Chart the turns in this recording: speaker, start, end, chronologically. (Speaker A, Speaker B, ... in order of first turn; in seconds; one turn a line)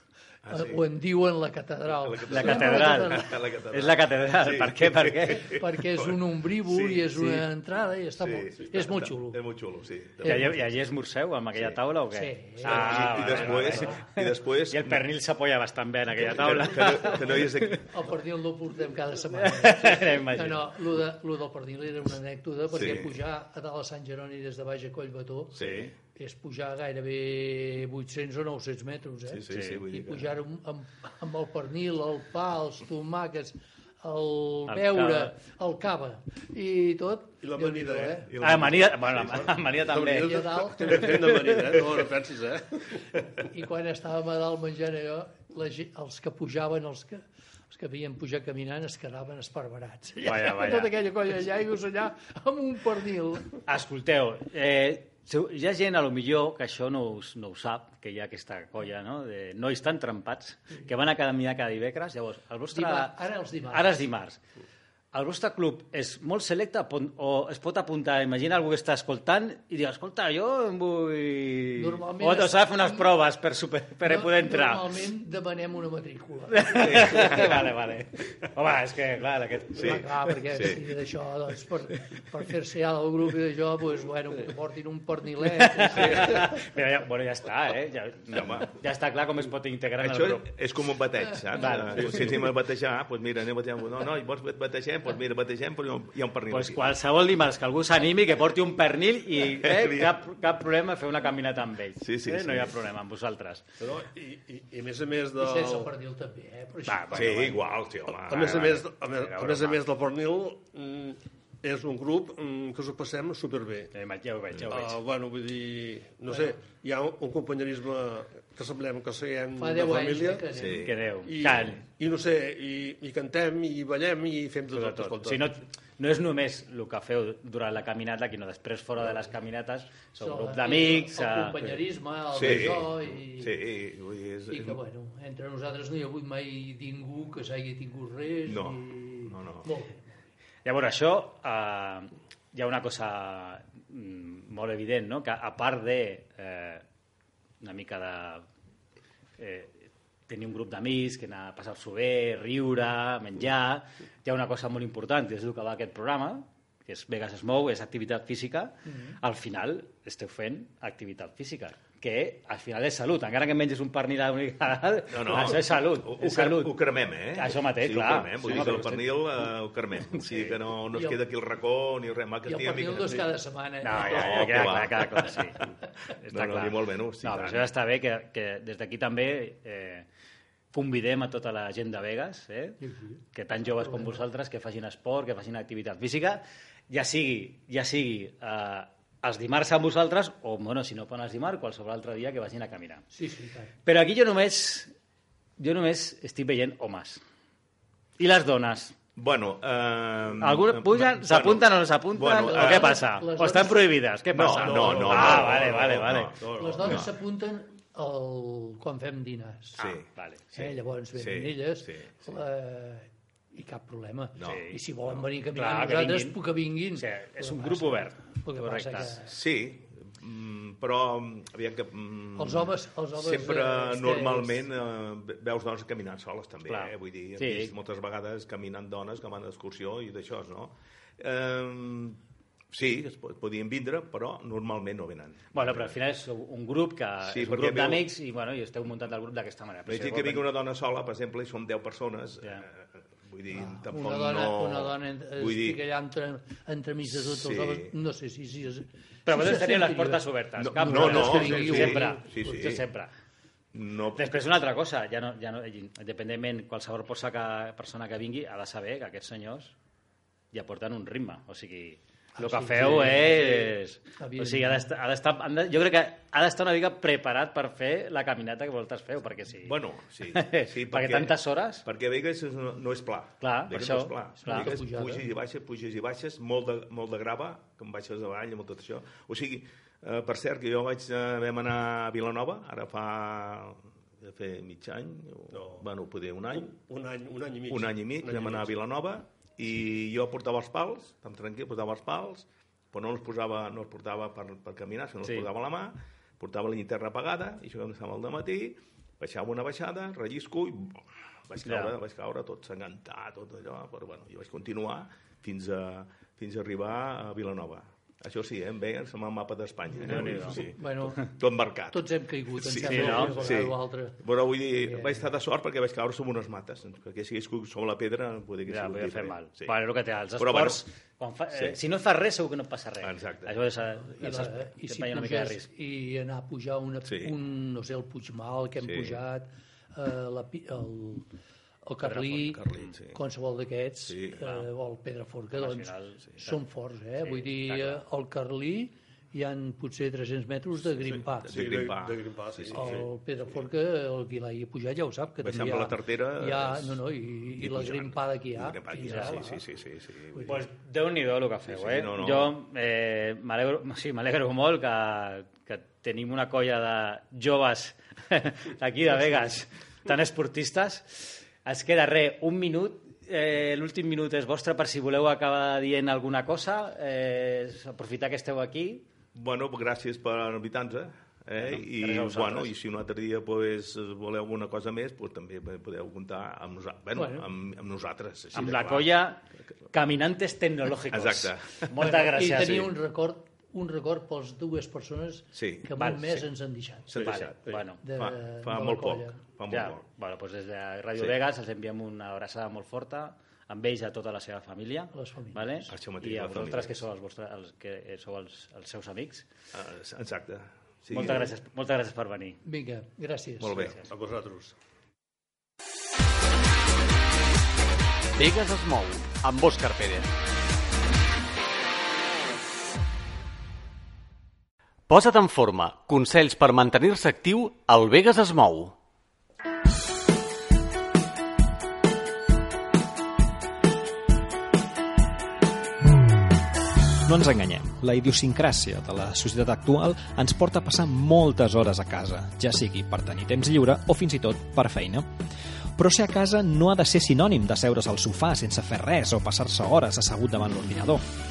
Speaker A: 0.5-0.8
Speaker B: 0.5-3.3
Speaker A: 1.9-7.3
Speaker C: 2.3-5.5
Speaker B: 5.3-9.4
Speaker A: 8.2-10.6
Speaker B: 10.2-10.6
Speaker C: 10.2-17.8
Speaker B: 12.1-14.0
Speaker A: 12.6-15.1
Speaker A: 16.2-17.8
Speaker B: 17.0-25.6
Speaker C: 19.3-20.7
Speaker A: 22.7-23.1
Speaker A: 25.5-25.9
Speaker C: 25.6-25.9
Speaker B: 26.1-38.4
Speaker A: 29.3-30.3
Speaker C: 29.5-29.8
Speaker C: 34.7-35.3
Speaker D: 37.4-38.3
Speaker A: 38.2-39.7
Speaker C: 38.4-41.9
Speaker D: 39.7-43.2
Speaker B: 40.2-41.3
Speaker B: 43.4-47.2
Speaker B: 47.7-53.6
Speaker C: 50.2-50.9
Speaker C: 53.6-64.4
Speaker B: 62.7-64.1
Speaker C: 65.1-75.0
Speaker B: 71.8-73.2
Speaker B: 74.0-77.4
Speaker C: 76.5-80.1
Speaker A: 76.9-77.6
Speaker B: 79.7-86.5
Speaker A: 79.8-80.8
Speaker C: 85.5-90.5
Speaker A: 88.3-88.7
Speaker A: 90.0-96.9
Speaker C: 91.5-92.5
Speaker C: 96.5-103.6
Speaker A: 99.5-100.2
Speaker A: 102.0-102.8
Speaker D: 103.8-105.9
Speaker B: 105.4-107.6
Speaker C: 106.9-107.6
Speaker A: 107.1-108.7
Speaker D: 108.1-113.9
Speaker C: 108.3-109.8
Speaker C: 113.9-115.0
Speaker D: 114.7-120.5
Speaker B: 116.3-116.6
Speaker B: 119.6-120.9
Speaker A: 120.5-121.0
Speaker C: 120.8-121.8
Speaker D: 121.2-125.6
Speaker C: 124.7-131.8
Speaker B: 130.2-133.6
Speaker A: 132.3-134.8
Speaker B: 134.5-140.1
Speaker A: 138.5-139.7
Speaker C: 140.7-146.8
Speaker C: 147.6-148.5
Speaker C: 149.4-169.5
Speaker B: 158.9-159.2
Speaker A: 165.1-173.3
Speaker C: 170.1-170.6
Speaker B: 170.9-171.2
Speaker B: 172.5-174.9
Speaker C: 173.8-175.6
Speaker A: 174.0-175.5
Speaker C: 176.2-180.1
Speaker A: 176.3-177.7
Speaker C: 180.7-182.8
Speaker B: 182.8-184.3
Speaker C: 183.3-193.1
Speaker B: 193.1-193.7
Speaker C: 193.8-194.9
Speaker C: 195.6-197.2
Speaker C: 198.2-198.9
Speaker A: 199.2-203.0
Speaker C: 200.4-207.0
Speaker B: 202.2-203.9
Speaker A: 204.3-207.1
Speaker B: 204.6-205.7
Speaker D: 204.7-205.6
Speaker B: 206.5-209.8
Speaker A: 209.8-212.2
Speaker C: 209.8-210.4
Speaker B: 210.5-219.3
Speaker A: 214.4-215.1
Speaker C: 214.4-214.8
Speaker C: 215.5-216.4
Speaker C: 216.9-219.2
Speaker A: 219.3-232.2
Speaker B: 222.4-224.7
Speaker C: 226.7-227.7
Speaker A: 232.7-236.0
Speaker C: 235.5-240.5
Speaker A: 237.2-238.1
Speaker A: 239.9-242.7
Speaker A: 243.3-245.8
Speaker B: 243.5-250.2
Speaker A: 247.1-247.9
Speaker C: 249.3-253.1
Speaker A: 250.6-252.9
Speaker B: 250.8-252.5
Speaker A: 253.7-254.4
Speaker C: 254.1-259.7
Speaker C: 260.5-271.8
Speaker B: 262.4-264.9
Speaker A: 269.5-286.7
Speaker C: 273.4-274.8
Speaker B: 274.4-275.3
Speaker D: 285.5-285.9
Speaker D: 286.5-288.7
Speaker A: 287.7-319.7
Speaker C: 301.6-301.9
Speaker C: 310.0-310.6
Speaker B: 310.2-311.3
Speaker B: 311.9-314.2
Speaker C: 312.8-313.5
Speaker B: 314.7-315.3
Speaker C: 318.7-325.7
Speaker A: 320.4-320.8
Speaker A: 321.5-321.8
Speaker A: 323.0-323.5
Speaker B: 324.1-331.3
Speaker A: 327.1-327.3
Speaker A: 328.8-329.2
Speaker B: 331.8-341.5
Speaker C: 332.0-332.9
Speaker A: 332.4-333.2
Speaker A: 334.1-334.5
Speaker C: 335.5-336.6
Speaker C: 337.2-338.0
Speaker A: 340.8-343.1
Speaker D: 341.5-343.0
Speaker B: 342.7-349.6
Speaker A: 345.4-350.6
Speaker C: 349.0-349.4
Speaker C: 350.5-369.0
Speaker A: 351.7-352.6
Speaker B: 359.2-359.4
Speaker A: 369.3-379.2
Speaker C: 371.6-372.7
Speaker B: 377.1-377.4
Speaker C: 378.5-382.9
Speaker A: 381.1-382.9
Speaker B: 382.0-387.2
Speaker A: 385.6-385.9
Speaker C: 386.0-386.4
Speaker A: 387.1-390.0
Speaker D: 387.1-387.8
Speaker C: 387.2-388.0
Speaker B: 388.0-389.4
Speaker C: 389.7-399.5
Speaker B: 395.1-395.9
Speaker A: 395.9-397.0
Speaker A: 399.7-401.5
Speaker C: 401.1-402.6
Speaker B: 402.6-403.9
Speaker A: 403.6-404.0
Speaker C: 403.7-404.1
Speaker D: 403.9-404.8
Speaker E: 408.4-410.3
Speaker E: 415.1-418.9
Speaker F: 427.3-435.2
Speaker F: 436.0-441.2